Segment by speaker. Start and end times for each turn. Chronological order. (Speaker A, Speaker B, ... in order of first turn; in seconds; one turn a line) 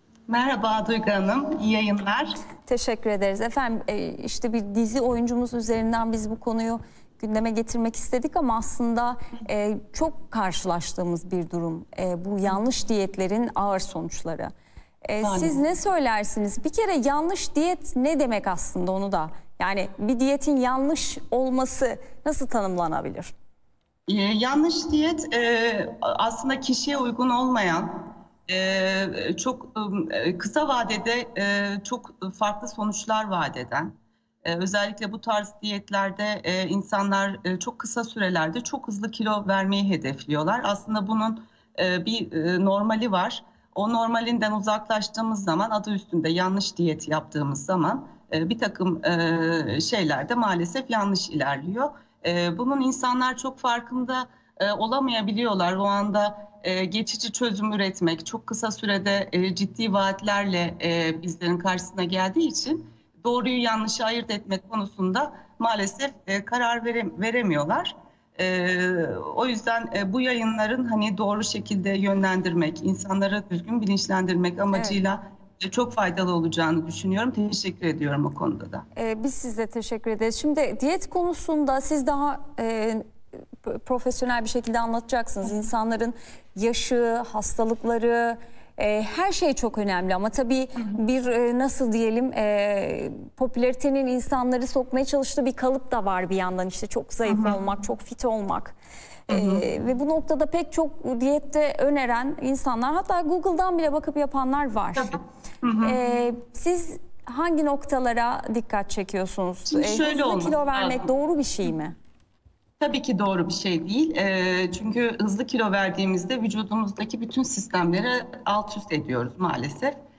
Speaker A: 0.3-2.4
Speaker B: 2.7-14.5
Speaker B: 15.1-23.3
Speaker A: 15.2-15.5
Speaker A: 24.1-78.8
Speaker B: 79.0-83.0
Speaker B: 83.6-98.8
Speaker A: 97.3-97.6
Speaker A: 99.3-99.7
Speaker B: 99.3-105.2
Speaker A: 105.0-106.0
Speaker B: 105.8-112.0
Speaker A: 109.7-111.1
Speaker A: 112.8-120.0